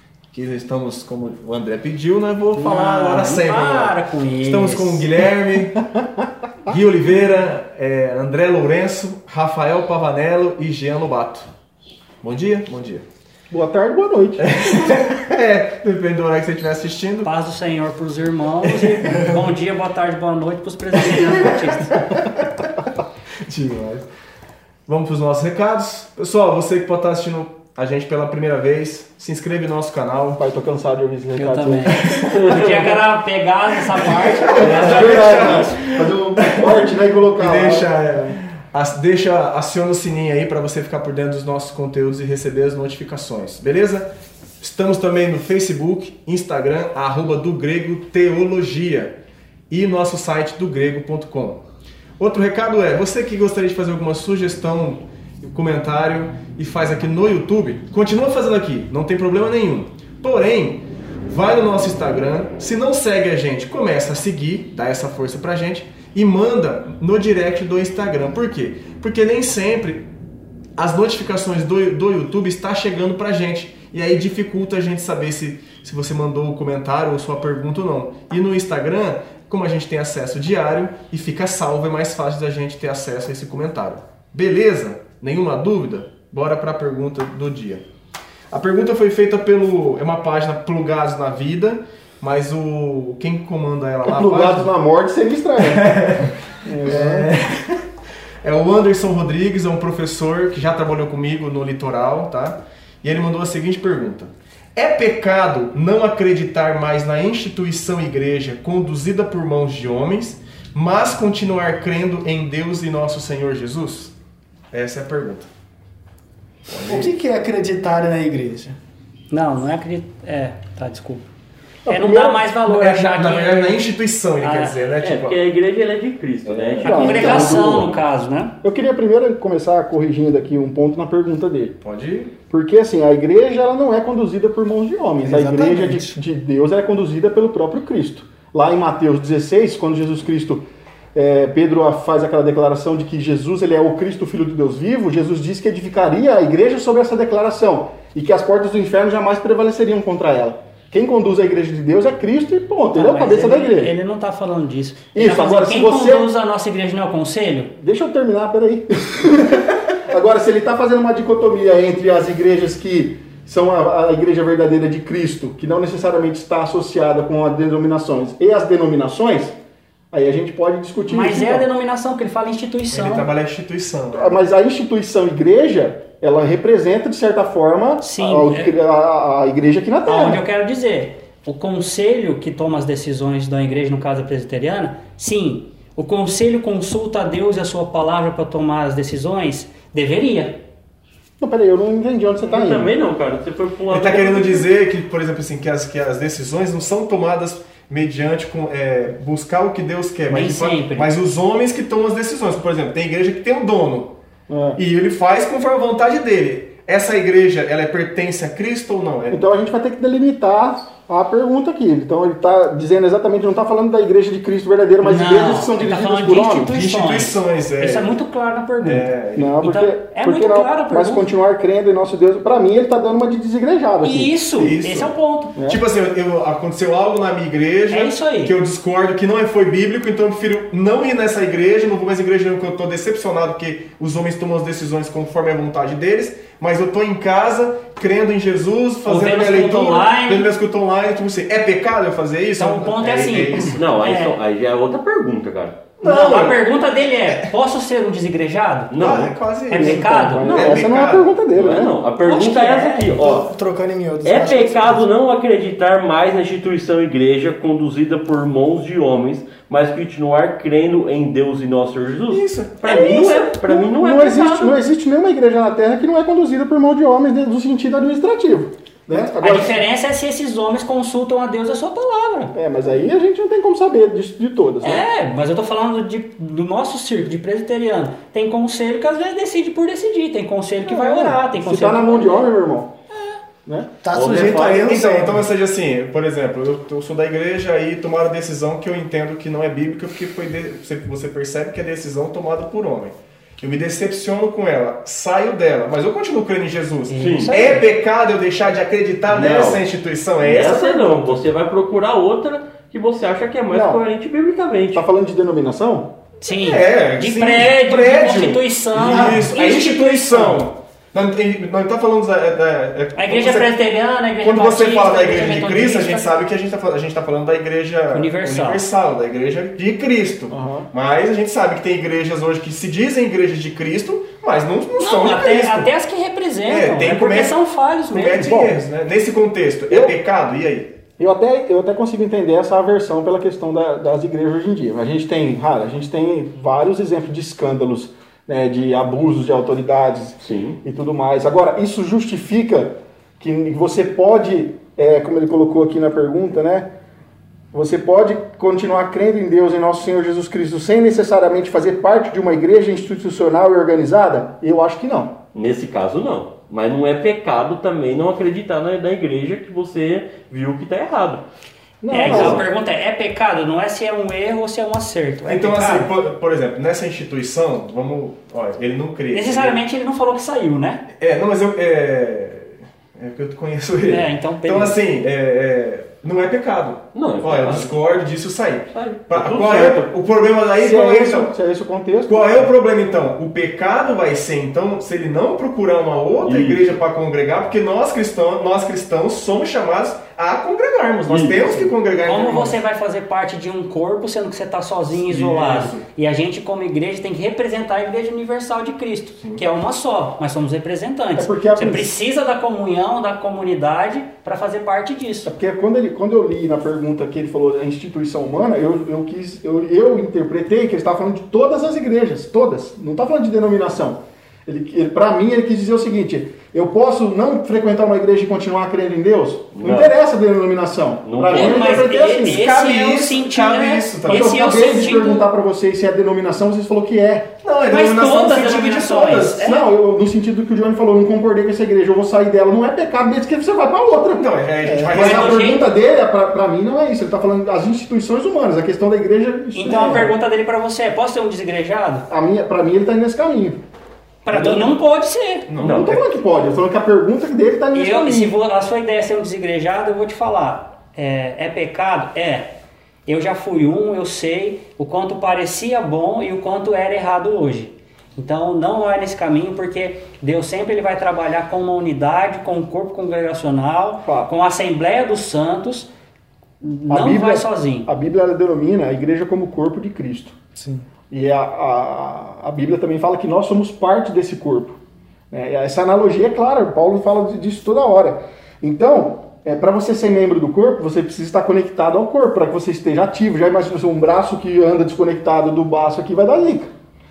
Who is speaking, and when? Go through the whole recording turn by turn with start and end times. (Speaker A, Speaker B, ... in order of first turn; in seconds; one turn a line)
Speaker A: 0.3-5.8
Speaker B: 2.6-5.1
Speaker A: 6.7-11.5
Speaker A: 12.2-13.1
Speaker C: 13.5-15.1
Speaker A: 14.4-17.3
Speaker B: 17.2-21.9
Speaker A: 18.6-19.4
Speaker A: 22.0-22.7
Speaker A: 23.5-24.1
Speaker A: 24.9-30.4
Speaker C: 30.4-32.1
Speaker B: 31.4-35.4
Speaker A: 31.9-32.4
Speaker D: 32.3-33.0
Speaker A: 33.9-44.1
Speaker C: 34.3-38.4
Speaker D: 34.6-35.2
Speaker A: 44.6-49.2
Speaker A: 49.7-51.6
Speaker A: 52.2-70.1
Speaker A: 70.8-87.8
Speaker A: 88.5-94.7
Speaker C: 94.0-97.3
Speaker A: 95.6-97.8
Speaker A: 98.4-114.1
Speaker A: 114.7-115.5
Speaker A: 116.7-117.1
Speaker E: 116.8-118.8
Speaker B: 119.3-121.2
Speaker C: 121.9-122.5
Speaker B: 121.9-123.9
Speaker A: 122.7-125.4
Speaker B: 124.4-125.0
Speaker D: 125.0-127.6
Speaker C: 126.8-127.9
Speaker B: 126.9-128.6
Speaker C: 128.6-131.8
Speaker A: 131.8-132.3
Speaker C: 132.5-140.6
Speaker A: 135.2-136.1
Speaker C: 141.2-153.9
Speaker B: 152.9-157.7
Speaker C: 155.1-156.3
Speaker C: 157.8-169.6
Speaker C: 170.1-171.7
Speaker B: 171.1-173.3
Speaker A: 172.9-174.4
Speaker C: 174.1-180.4
Speaker B: 178.0-178.7
Speaker B: 180.1-190.6
Speaker C: 191.4-192.9
Speaker D: 192.4-194.7
Speaker A: 193.9-204.2
Speaker B: 200.3-201.1
Speaker C: 204.5-204.8
Speaker A: 204.8-209.4
Speaker C: 209.3-216.7
Speaker B: 215.0-219.1
Speaker A: 216.7-218.1
Speaker A: 218.8-219.6
Speaker C: 219.3-224.4
Speaker B: 219.6-221.3
Speaker B: 224.0-225.6
Speaker A: 224.6-225.1
Speaker C: 225.6-225.8
Speaker A: 225.7-243.9
Speaker B: 227.9-228.6
Speaker B: 239.1-240.5
Speaker B: 242.6-244.3
Speaker D: 243.8-245.9
Speaker A: 246.0-246.6
Speaker B: 246.0-249.0
Speaker D: 248.9-249.4
Speaker A: 249.0-251.3
Speaker B: 249.7-250.5
Speaker C: 249.7-252.0
Speaker D: 250.4-250.8
Speaker D: 251.5-253.5
Speaker B: 252.2-253.2
Speaker E: 253.1-255.1
Speaker D: 254.2-264.8
Speaker A: 262.3-263.2
Speaker C: 263.0-269.8
Speaker B: 269.4-272.5
Speaker C: 272.5-275.1
Speaker B: 274.8-282.4
Speaker C: 280.9-282.9
Speaker C: 283.6-283.9
Speaker E: 284.0-285.5
Speaker D: 284.1-284.8
Speaker A: 284.3-301.4
Speaker B: 297.1-297.9
Speaker D: 297.2-297.5
Speaker D: 299.3-299.8
Speaker D: 300.4-305.0
Speaker C: 303.7-304.0
Speaker C: 304.9-306.1
Speaker B: 306.4-310.6
Speaker A: 306.5-313.7
Speaker B: 313.2-316.3
Speaker A: 314.4-325.9
Speaker B: 318.1-318.9
Speaker C: 320.5-320.9
Speaker B: 325.0-328.6
Speaker A: 326.6-331.0
Speaker C: 328.4-328.8
Speaker C: 329.9-330.2
Speaker C: 331.2-346.9
Speaker D: 340.4-340.8
Speaker C: 347.7-355.4
Speaker D: 355.5-361.4
Speaker C: 362.0-362.7
Speaker B: 362.1-366.1
Speaker D: 362.1-362.7
Speaker A: 365.5-369.8
Speaker B: 369.3-371.1
Speaker A: 371.2-381.5
Speaker B: 374.1-375.0
Speaker D: 377.1-377.9
Speaker D: 378.9-380.1
Speaker C: 380.8-382.7
Speaker A: 382.3-392.8
Speaker D: 386.4-387.0
Speaker D: 391.3-391.9
Speaker B: 392.2-405.5
Speaker A: 395.1-396.0
Speaker C: 401.4-402.1
Speaker C: 405.5-422.6
Speaker D: 419.8-420.1
Speaker D: 421.2-422.0
Speaker B: 421.5-425.5
Speaker A: 422.5-424.5
Speaker C: 424.3-427.5
Speaker A: 427.6-429.6
Speaker B: 427.9-429.8
Speaker C: 429.6-440.3
Speaker A: 434.3-435.6
Speaker B: 435.1-435.9
Speaker B: 439.7-442.3
Speaker C: 442.3-443.8
Speaker B: 444.4-445.7
Speaker C: 444.5-444.9
Speaker A: 445.7-446.2
Speaker D: 445.8-446.2
Speaker C: 445.8-448.6
Speaker B: 447.9-466.1
Speaker C: 464.2-464.5
Speaker B: 466.8-468.1
Speaker C: 467.1-470.6
Speaker E: 470.8-471.0
Speaker C: 471.3-475.0
Speaker C: 475.5-486.9